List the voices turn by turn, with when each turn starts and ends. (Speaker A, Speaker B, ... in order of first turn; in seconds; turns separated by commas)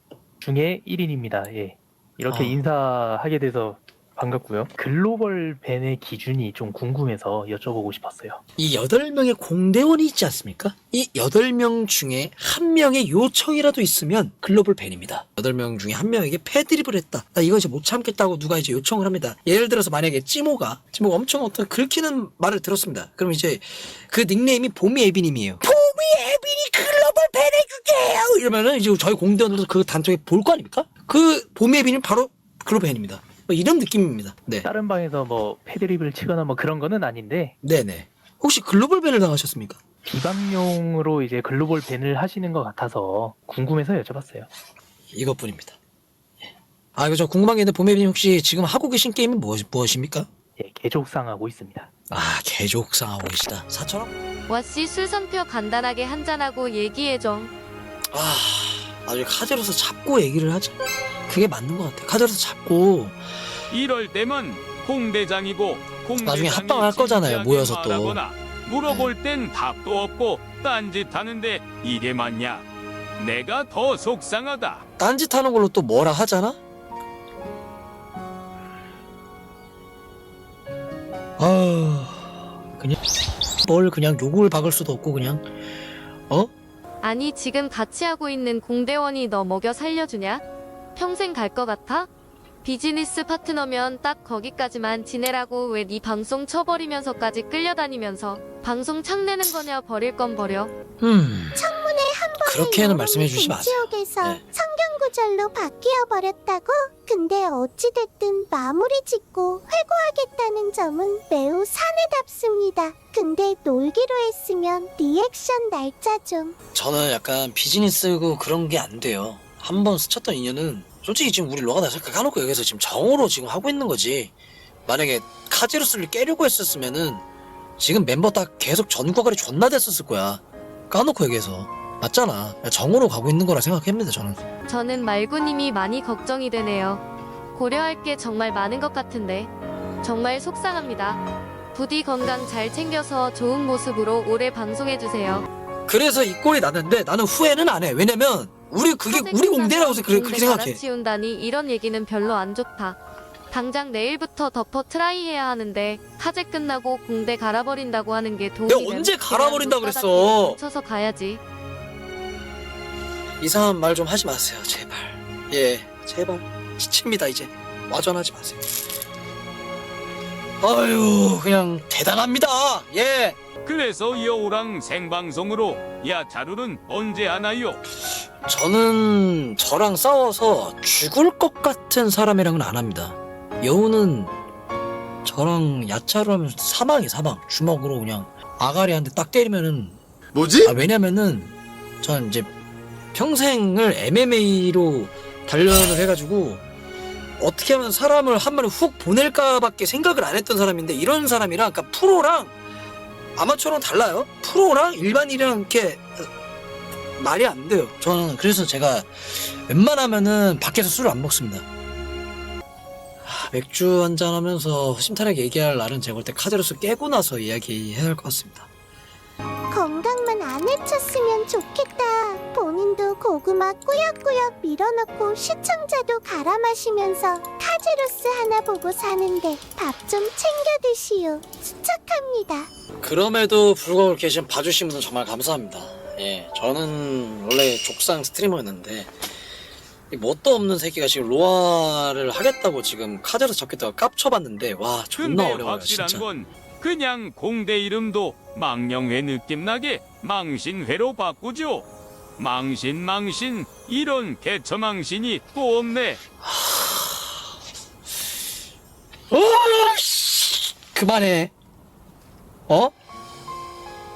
Speaker A: 0.4-8.4, Speaker B: 2.3-2.6, Speaker B: 8.6-34.7, Speaker A: 34.6-37.5, Speaker B: 37.6-39.8, Speaker A: 40.1-44.5, Speaker B: 45.1-45.8, Speaker B: 47.0-50.3, Speaker A: 50.6-51.9, Speaker B: 52.1-54.1, Speaker C: 54.5-57.5, Speaker B: 58.1-60.7, Speaker B: 61.3-63.2, Speaker D: 63.7-72.6, Speaker B: 66.2-68.2, Speaker B: 68.8-69.1, Speaker D: 73.2-74.8, Speaker B: 75.0-76.6, Speaker B: 81.4-83.0, Speaker B: 83.6-85.5, Speaker C: 87.0-90.4, Speaker C: 91.0-92.1, Speaker C: 92.6-100.7, Speaker B: 101.0-101.6, Speaker E: 101.6-116.5, Speaker B: 102.4-104.4, Speaker B: 116.7-124.3, Speaker B: 124.9-127.2, Speaker B: 127.8-134.4, Speaker C: 134.7-137.0, Speaker C: 137.5-139.5, Speaker C: 140.0-141.2, Speaker C: 141.7-145.4, Speaker B: 145.9-150.8, Speaker C: 149.1-153.0, Speaker C: 153.5-161.4, Speaker B: 158.7-160.6, Speaker B: 163.4-168.7, Speaker B: 170.6-173.4, Speaker D: 173.6-177.8, Speaker B: 178.4-184.3, Speaker B: 185.2-190.0, Speaker B: 190.6-192.5, Speaker B: 193.1-196.6, Speaker B: 197.4-202.5, Speaker B: 203.3-206.3, Speaker B: 207.2-211.7, Speaker B: 213.2-218.7, Speaker E: 219.7-232.7, Speaker B: 233.0-239.1, Speaker B: 240.1-246.3, Speaker D: 245.2-256.2, Speaker B: 256.4-257.3, Speaker B: 259.3-261.5, Speaker B: 262.7-262.9